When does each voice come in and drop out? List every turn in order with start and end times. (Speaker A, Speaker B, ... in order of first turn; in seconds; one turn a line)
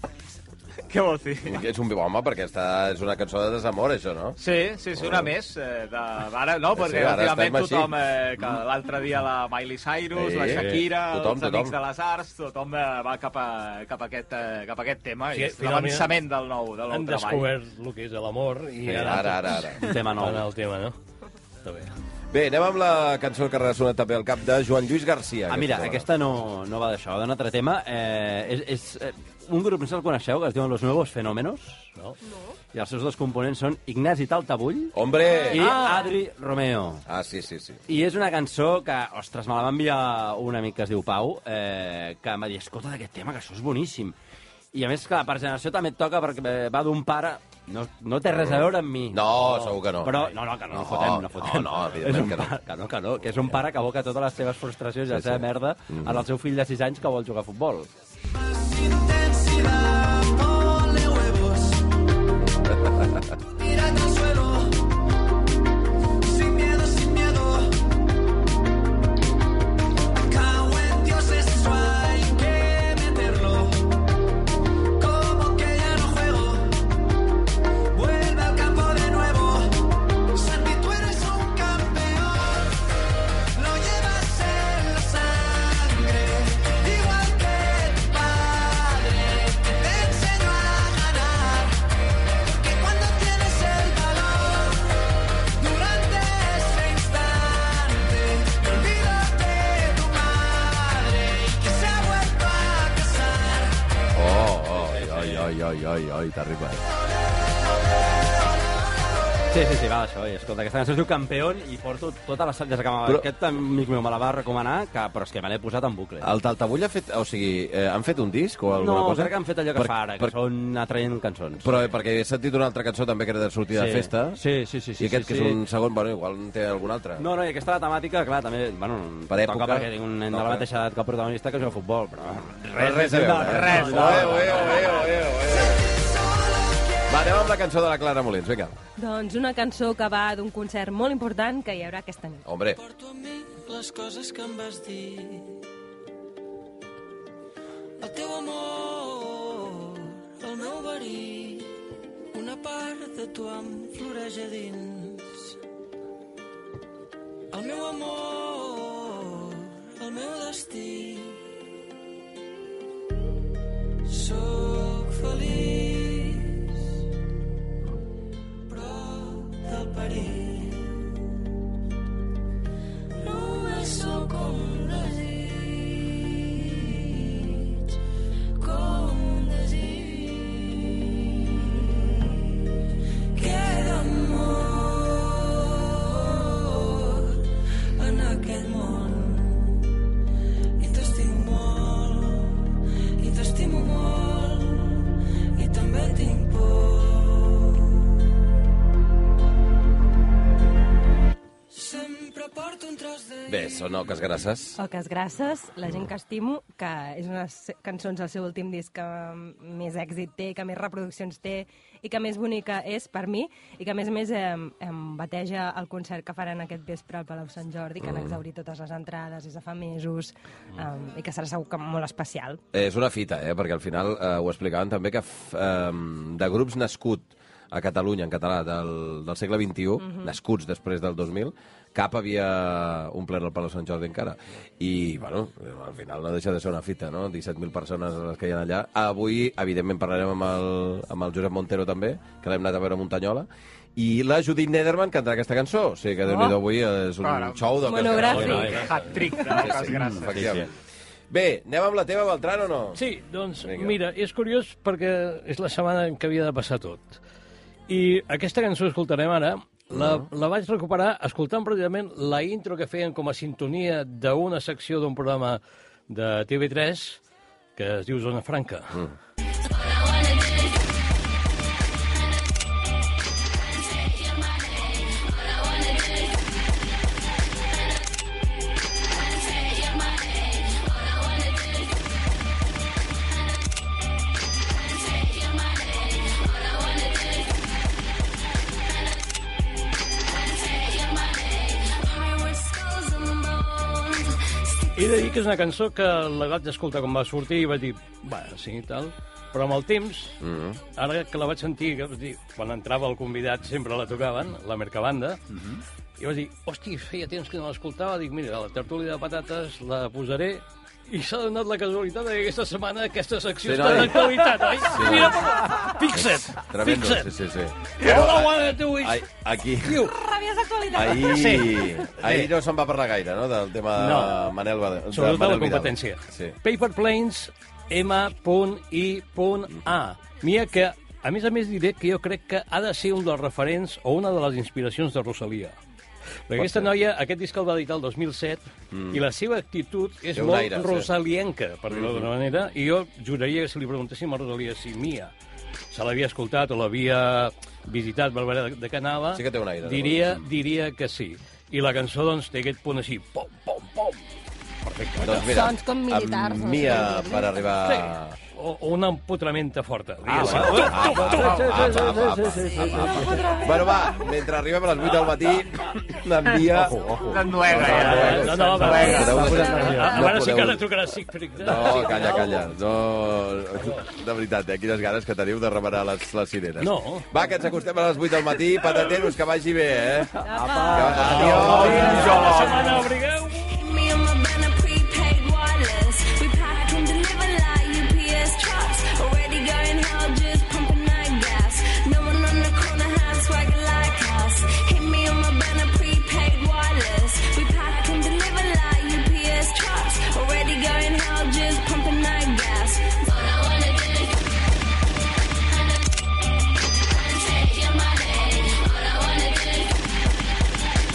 Speaker A: 0.9-1.6
Speaker B: 1.4-4.4
Speaker A: 4.4-17.5
Speaker B: 4.9-5.3
Speaker B: 6.7-7.9
Speaker B: 10.1-11.8
Speaker C: 10.5-10.8
Speaker D: 15.3-16.1
Speaker D: 16.9-20.9
Speaker B: 18.9-19.9
Speaker C: 19.8-20.4
Speaker D: 21.6-21.9
Speaker B: 22.3-26.1
Speaker C: 25.5-31.9
Speaker C: 32.7-34.9
Speaker B: 34.9-35.9
Speaker C: 35.5-37.0
Speaker B: 37.1-37.8
Speaker C: 37.9-44.1
Speaker C: 44.7-49.4
Speaker B: 48.3-52.5
Speaker C: 50.0-57.9
Speaker B: 55.1-56.2
Speaker E: 58.3-61.9
Speaker E: 63.4-64.9
Speaker E: 66.2-67.8
Speaker E: 70.2-74.0
Speaker E: 75.0-76.9
Speaker E: 77.9-82.8
Speaker E: 83.5-91.8
Speaker E: 92.4-95.0
Speaker E: 95.5-103.8
Speaker B: 104.1-106.8
Speaker C: 104.9-105.5
Speaker E: 106.8-109.3
Speaker C: 109.5-116.3
Speaker B: 116.2-120.3
Speaker C: 118.7-121.9
Speaker B: 121.6-124.4
Speaker C: 123.7-125.6
Speaker B: 125.0-127.2
Speaker C: 127.2-135.1
Speaker B: 129.3-130.7
Speaker B: 132.7-135.8
Speaker A: 133.4-134.8
Speaker E: 135.5-137.5
Speaker B: 137.1-138.8
Speaker F: 139.0-142.4
Speaker B: 142.4-142.8
Speaker G: 142.7-145.6
Speaker G: 148.0-151.7
Speaker G: 152.3-155.6
Speaker G: 157.5-161.4
Speaker G: 164.1-166.8
Speaker G: 168.7-171.0
Speaker G: 173.2-177.6
Speaker G: 178.6-180.9
Speaker G: 183.3-187.4
Speaker G: 188.0-189.8
Speaker G: 190.8-197.8
Speaker G: 201.7-204.0
Speaker B: 203.5-204.8
Speaker F: 204.8-222.6
Speaker B: 218.0-218.4
Speaker B: 222.7-248.8
Speaker F: 230.0-230.3
Speaker F: 246.3-246.6
Speaker A: 247.2-250.5
Speaker F: 247.8-249.4
Speaker D: 248.3-249.1
Speaker C: 248.3-248.8
Speaker B: 249.4-250.7
Speaker C: 249.9-250.7
Speaker B: 251.3-253.0
Speaker D: 252.9-257.2
Speaker B: 253.6-254.0
Speaker D: 257.9-267.2
Speaker B: 259.9-260.3
Speaker D: 267.8-269.0
Speaker H: 269.7-270.8
Speaker H: 274.3-276.4
Speaker H: 279.4-281.9
Speaker H: 285.3-287.5
Speaker H: 290.6-295.2
Speaker D: 294.9-300.4
Speaker B: 300.4-300.8
Speaker D: 300.9-305.4
Speaker D: 306.2-317.3
Speaker B: 313.6-315.6
Speaker B: 316.1-320.1
Speaker D: 318.0-319.2
Speaker D: 319.8-320.1
Speaker F: 319.9-321.8
Speaker B: 320.9-326.6
Speaker D: 321.3-322.5
Speaker D: 324.0-324.4
Speaker D: 325.1-335.8
Speaker D: 336.5-345.3
Speaker B: 336.6-336.9
Speaker B: 338.9-339.2
Speaker B: 340.3-341.1
Speaker B: 341.9-342.3
Speaker D: 345.9-354.2
Speaker B: 349.3-350.4
Speaker C: 354.9-355.4
Speaker B: 355.2-358.3
Speaker F: 355.3-357.6
Speaker D: 357.8-362.1
Speaker C: 360.3-363.5
Speaker B: 360.3-370.8
Speaker F: 362.9-364.1
Speaker C: 366.7-369.9
Speaker A: 367.2-369.6
Speaker D: 367.9-372.7
Speaker F: 369.1-370.3
Speaker B: 371.6-380.3
Speaker D: 373.8-374.1
Speaker D: 376.8-377.3
Speaker C: 380.4-382.6
Speaker F: 380.4-382.2
Speaker B: 380.9-382.9
Speaker D: 381.3-383.8
Speaker A: 381.6-383.0
Speaker H: 383.6-404.4
Speaker H: 407.6-409.9